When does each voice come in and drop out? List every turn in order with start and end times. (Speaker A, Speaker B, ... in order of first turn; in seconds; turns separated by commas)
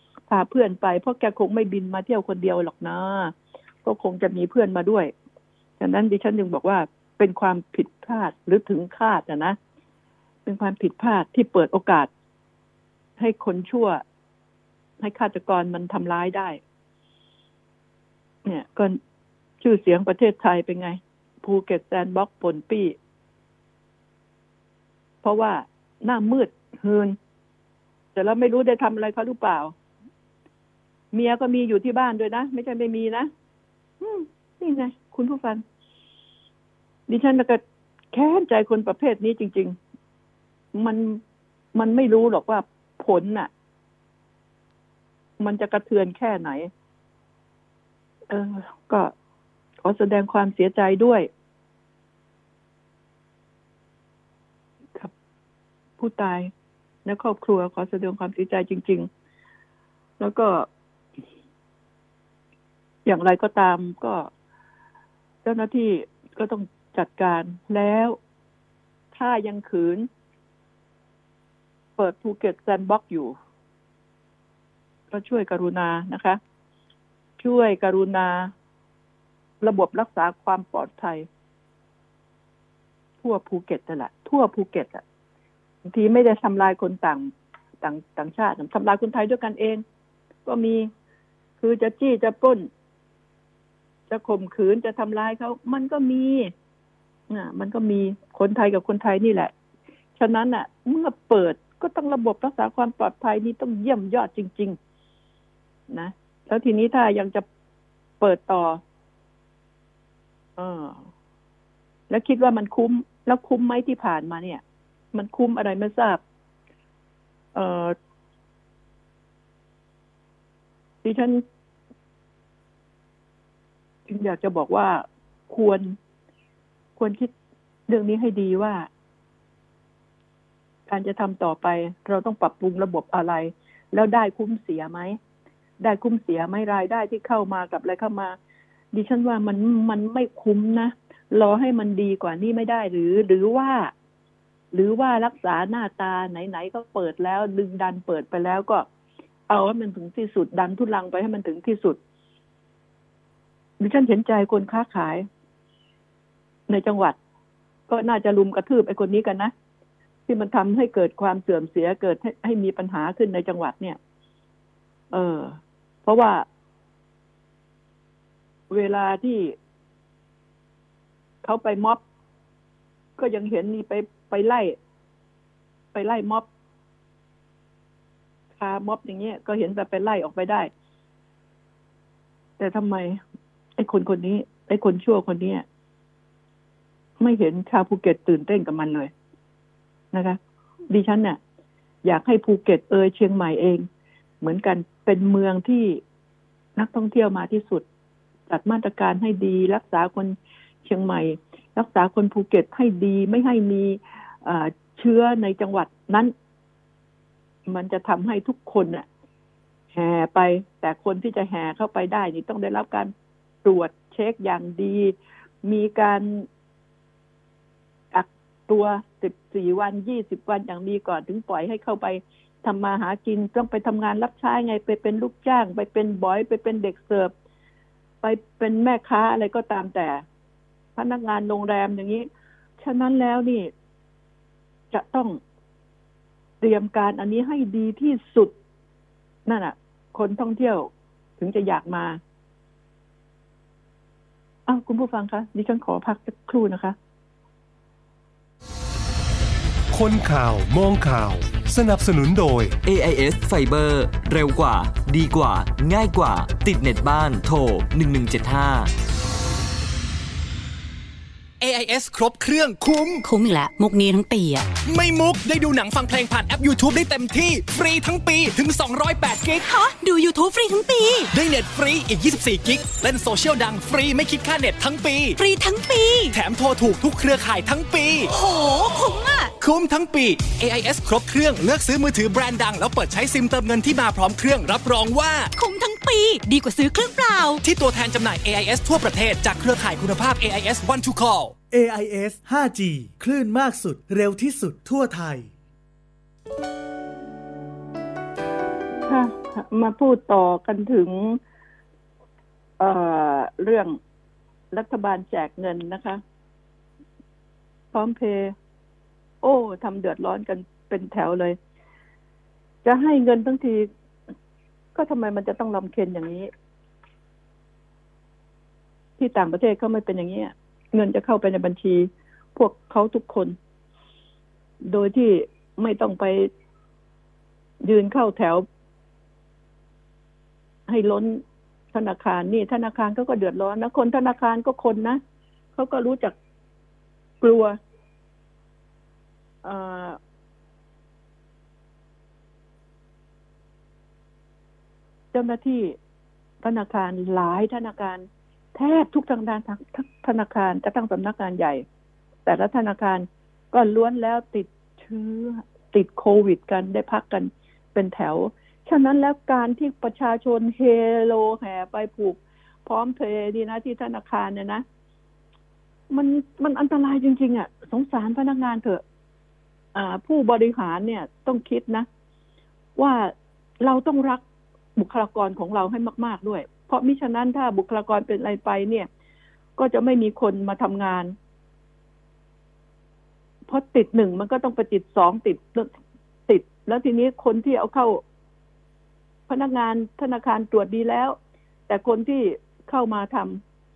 Speaker A: 0.3-3.3, Speaker A: 3.8-5.1, Speaker A: 5.8-9.6, Speaker A: 10.4-12.1, Speaker A: 13.2-14.0, Speaker A: 15.0-16.6, Speaker A: 18.4-19.0, Speaker A: 19.6-22.9, Speaker A: 25.2-27.2, Speaker A: 28.1-29.7, Speaker A: 31.1-33.3, Speaker A: 34.0-35.6, Speaker A: 37.1-37.6, Speaker A: 38.1-39.8, Speaker A: 40.7-41.2, Speaker A: 41.7-43.5, Speaker A: 45.4-46.7, Speaker A: 48.3-49.1, Speaker A: 49.8-51.3, Speaker A: 56.0-56.5, Speaker A: 57.0-59.1, Speaker A: 60.2-60.7, Speaker A: 63.0-64.3, Speaker A: 65.4-68.2, Speaker A: 69.1-70.1, Speaker A: 72.0-73.3, Speaker A: 75.1-76.4, Speaker A: 77.4-78.5, Speaker A: 79.6-81.3, Speaker A: 83.2-85.0, Speaker A: 85.8-87.3, Speaker A: 87.8-89.8, Speaker A: 90.5-90.9, Speaker A: 91.6-92.7, Speaker A: 94.1-96.5, Speaker A: 97.3-99.5, Speaker A: 100.2-104.8, Speaker A: 105.9-107.4, Speaker A: 108.2-108.8, Speaker A: 110.6-111.0, Speaker A: 112.1-114.6, Speaker A: 115.1-116.2, Speaker A: 117.5-118.0, Speaker A: 121.0-121.4, Speaker A: 124.1-126.0, Speaker A: 127.0-127.3, Speaker A: 127.9-128.9, Speaker A: 130.9-135.2, Speaker A: 135.8-138.3, Speaker A: 138.9-143.9, Speaker A: 144.7-148.8, Speaker A: 149.5-152.0, Speaker A: 153.8-155.3, Speaker A: 156.7-157.2, Speaker A: 157.9-159.5, Speaker A: 160.3-164.0, Speaker A: 165.1-166.4, Speaker A: 168.7-169.5, Speaker A: 171.4-172.0, Speaker A: 173.2-174.8, Speaker A: 175.9-176.4, Speaker A: 178.6-180.7, Speaker A: 182.6-183.2, Speaker A: 183.8-185.6, Speaker A: 187.2-189.1, Speaker A: 190.1-190.4, Speaker A: 190.9-191.4, Speaker A: 192.0-193.8, Speaker A: 194.4-196.0, Speaker A: 196.8-197.8, Speaker A: 198.5-206.3, Speaker A: 207.7-209.0, Speaker A: 209.9-213.1, Speaker A: 213.6-216.5, Speaker A: 218.1-227.3, Speaker A: 228.2-230.2, Speaker A: 230.9-232.3, Speaker A: 232.8-233.7, Speaker A: 234.9-235.4, Speaker A: 236.6-238.5, Speaker A: 239.4-242.2, Speaker A: 244.7-246.9, Speaker B: 249.9-252.8, Speaker C: 252.8-258.9, Speaker D: 261.6-263.2, Speaker E: 263.2-264.7, Speaker D: 264.9-269.7, Speaker E: 269.6-271.3, Speaker D: 271.3-275.4, Speaker E: 275.4-276.3, Speaker D: 276.3-278.3, Speaker E: 278.3-279.5, Speaker D: 279.6-285.5, Speaker E: 285.6-287.6, Speaker D: 287.6-291.5, Speaker F: 291.7-295.5, Speaker A: 299.1-301.4, Speaker A: 302.8-304.0, Speaker A: 304.7-306.2, Speaker A: 307.9-308.5, Speaker A: 309.4-311.6, Speaker A: 312.8-313.9, Speaker A: 314.9-316.5, Speaker A: 319.2-323.6, Speaker A: 324.8-326.5, Speaker A: 327.8-328.6, Speaker A: 330.9-335.2, Speaker A: 335.8-336.3, Speaker A: 337.4-337.8, Speaker A: 339.6-340.2, Speaker A: 345.3-345.9, Speaker A: 346.6-351.8, Speaker A: 352.4-364.8, Speaker A: 366.1-369.0, Speaker A: 369.9-372.1, Speaker A: 373.0-374.4, Speaker A: 375.0-379.1, Speaker A: 379.8-381.3, Speaker A: 383.7-385.9, Speaker A: 386.5-388.2, Speaker A: 389.5-391.4, Speaker A: 391.9-393.6